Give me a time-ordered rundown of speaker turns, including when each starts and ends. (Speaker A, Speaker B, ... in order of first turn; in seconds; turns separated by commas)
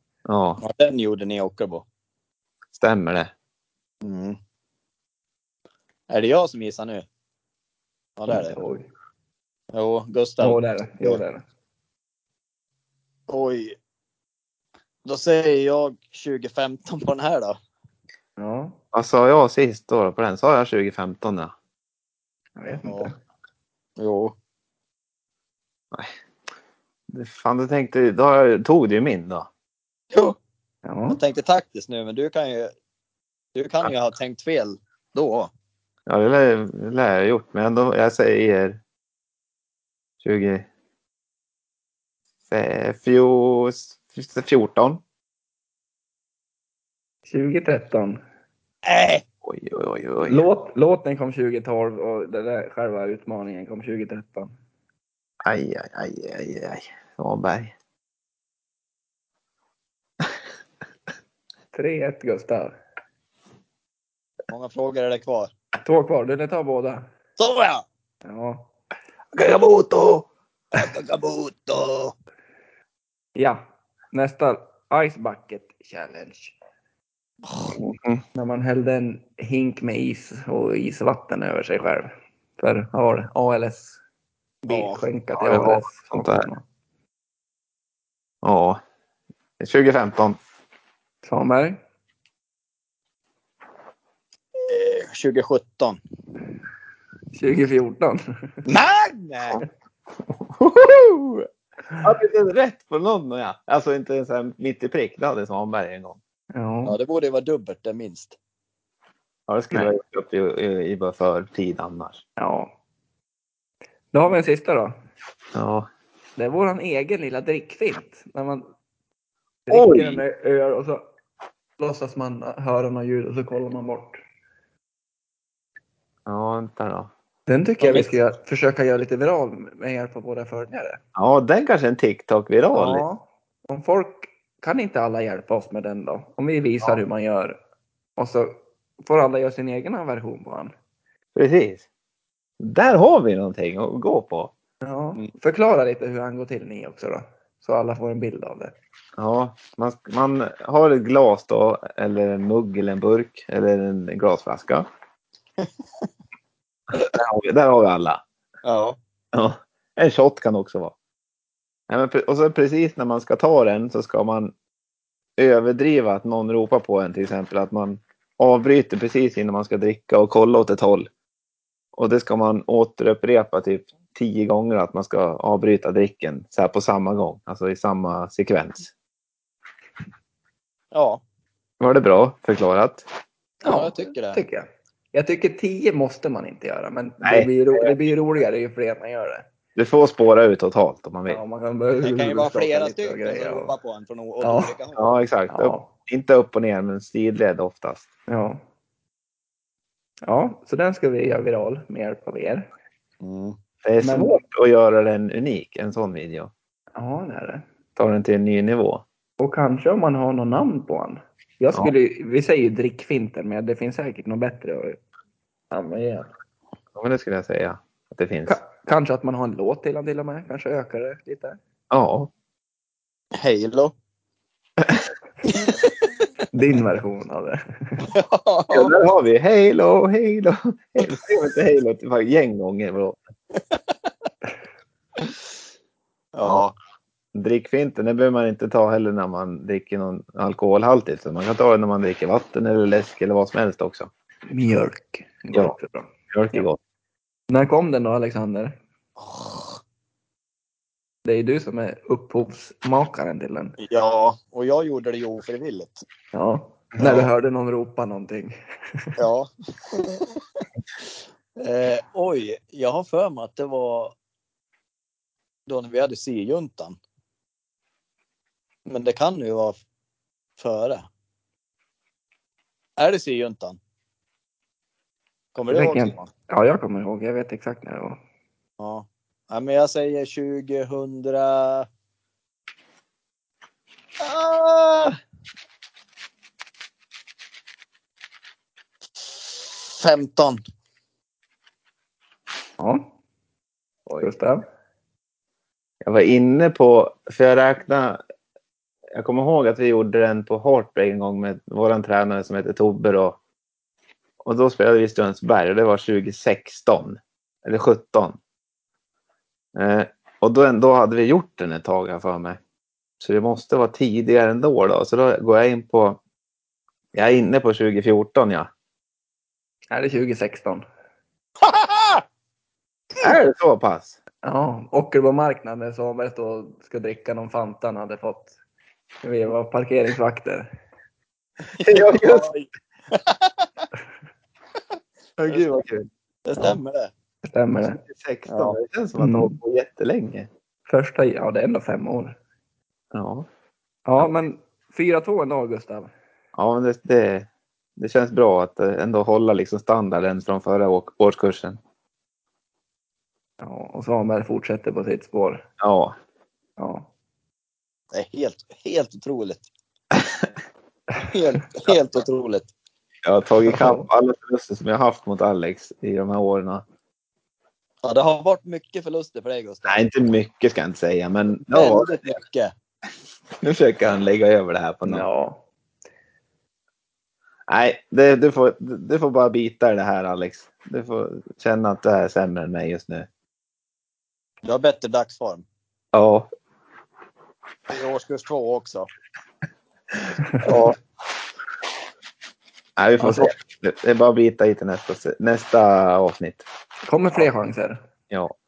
Speaker A: 0.2-0.6, Speaker B: 0.6-1.8, Speaker A: 2.7-3.3, Speaker B: 4.0-4.4, Speaker B: 6.1-7.0, Speaker B: 8.2-8.6, Speaker C: 8.3-8.9, Speaker B: 9.7-11.2, Speaker C: 10.4-11.4, Speaker B: 13.3-13.7, Speaker B: 15.0-17.6, Speaker C: 18.4-18.8, Speaker A: 18.9-21.5, Speaker C: 22.6-23.1, Speaker B: 22.8-23.1, Speaker B: 24.0-24.3, Speaker A: 27.1-29.5, Speaker C: 30.9-31.2, Speaker B: 31.1-32.7, Speaker B: 33.5-35.5, Speaker A: 36.1-38.8, Speaker A: 40.2-40.6, Speaker A: 42.5-45.0, Speaker C: 47.3-48.2, Speaker B: 48.8-49.2, Speaker A: 49.4-50.4, Speaker C: 50.2-54.5, Speaker A: 55.4-57.7, Speaker C: 61.7-62.7, Speaker B: 64.5-65.5, Speaker C: 65.8-67.0, Speaker B: 67.4-67.8, Speaker C: 68.2-68.7, Speaker A: 69.3-70.3, Speaker B: 70.7-72.1, Speaker C: 73.3-76.5, Speaker B: 77.5-77.7, Speaker A: 77.7-78.2, Speaker C: 78.3-84.0, Speaker C: 84.6-86.6, Speaker B: 84.7-85.0, Speaker A: 85.4-86.5, Speaker A: 88.4-88.8, Speaker A: 89.6-90.4, Speaker C: 91.2-91.8, Speaker B: 94.7-96.0, Speaker C: 97.3-98.2, Speaker B: 98.7-99.6, Speaker A: 100.5-101.5, Speaker A: 102.0-106.2, Speaker C: 106.5-107.0, Speaker B: 106.8-108.3, Speaker A: 109.5-112.2, Speaker C: 112.4-112.7, Speaker C: 114.1-114.9, Speaker A: 115.5-115.9, Speaker C: 116.4-118.6, Speaker C: 119.7-121.0, Speaker A: 119.7-120.2, Speaker C: 121.8-124.2, Speaker A: 126.2-127.1, Speaker C: 127.5-131.0, Speaker B: 127.8-128.1, Speaker A: 131.2-133.0, Speaker C: 132.8-137.6, Speaker C: 138.2-140.7, Speaker A: 141.3-141.8, Speaker A: 142.6-144.5, Speaker C: 144.8-148.7, Speaker A: 149.2-154.8, Speaker A: 156.9-158.2, Speaker B: 158.6-159.0, Speaker A: 159.3-160.9, Speaker A: 161.9-164.5, Speaker A: 165.4-171.1, Speaker A: 171.9-178.9, Speaker B: 180.9-181.2, Speaker A: 181.8-183.0, Speaker B: 183.6-184.4, Speaker C: 183.6-189.4, Speaker A: 187.2-187.9, Speaker A: 189.8-191.4, Speaker C: 191.3-193.7, Speaker B: 192.0-195.1, Speaker C: 194.4-194.7, Speaker A: 194.9-198.1, Speaker C: 195.5-195.9, Speaker C: 198.3-198.6, Speaker C: 200.2-202.7, Speaker B: 203.2-203.6, Speaker A: 203.8-206.5, Speaker C: 204.0-204.4, Speaker C: 206.9-207.6, Speaker A: 207.9-209.0, Speaker C: 209.4-215.0, Speaker C: 215.7-216.3, Speaker A: 216.9-218.6, Speaker C: 218.5-221.6, Speaker A: 221.9-222.3, Speaker B: 223.4-223.9, Speaker B: 225.5-226.2, Speaker C: 226.5-228.1, Speaker B: 228.1-228.9, Speaker A: 228.7-233.2, Speaker B: 233.5-233.9, Speaker B: 236.3-236.7, Speaker A: 237.3-244.1, Speaker C: 244.5-246.1, Speaker A: 246.3-246.8, Speaker C: 247.5-248.8, Speaker B: 249.2-249.8, Speaker C: 251.2-253.8, Speaker B: 253.8-256.0, Speaker C: 256.3-259.1, Speaker B: 257.0-257.3, Speaker B: 259.2-260.4, Speaker B: 261.6-264.1, Speaker B: 265.7-267.0, Speaker B: 268.9-269.8, Speaker B: 270.6-271.1, Speaker B: 273.0-273.8, Speaker B: 275.5-276.3, Speaker C: 275.7-278.2, Speaker B: 278.8-281.9, Speaker B: 284.2-285.1, Speaker B: 289.2-290.6, Speaker C: 292.8-293.1, Speaker C: 294.1-294.6, Speaker A: 296.0-298.2, Speaker A: 299.1-303.4, Speaker A: 304.4-308.4, Speaker A: 309.7-312.6, Speaker A: 313.2-316.2, Speaker A: 317.1-318.7, Speaker C: 319.9-320.8, Speaker B: 321.6-322.2, Speaker A: 323.2-324.2, Speaker C: 324.4-328.5, Speaker C: 329.2-330.7, Speaker B: 331.7-333.6, Speaker A: 331.9-332.5, Speaker A: 335.4-336.1, Speaker B: 336.4-337.1, Speaker C: 337.4-338.0, Speaker A: 338.0-340.5, Speaker B: 338.5-338.8, Speaker C: 339.2-339.6, Speaker C: 340.9-342.4, Speaker A: 343.1-343.4, Speaker C: 344.1-346.1, Speaker A: 346.5-351.8, Speaker C: 353.6-355.6, Speaker A: 355.8-356.1, Speaker C: 356.8-357.1, Speaker B: 358.1-359.7, Speaker A: 360.1-360.5, Speaker B: 361.3-362.7, Speaker A: 363.2-366.8, Speaker C: 363.7-364.1, Speaker B: 368.0-370.1, Speaker A: 369.8-372.4, Speaker B: 371.7-372.7, Speaker A: 373.6-375.2, Speaker C: 375.0-375.6, Speaker A: 377.7-383.3, Speaker B: 384.6-385.6, Speaker A: 386.1-386.5, Speaker B: 387.9-389.1, Speaker A: 390.6-390.9, Speaker A: 393.0-396.6, Speaker C: 393.2-393.5, Speaker C: 397.1-398.0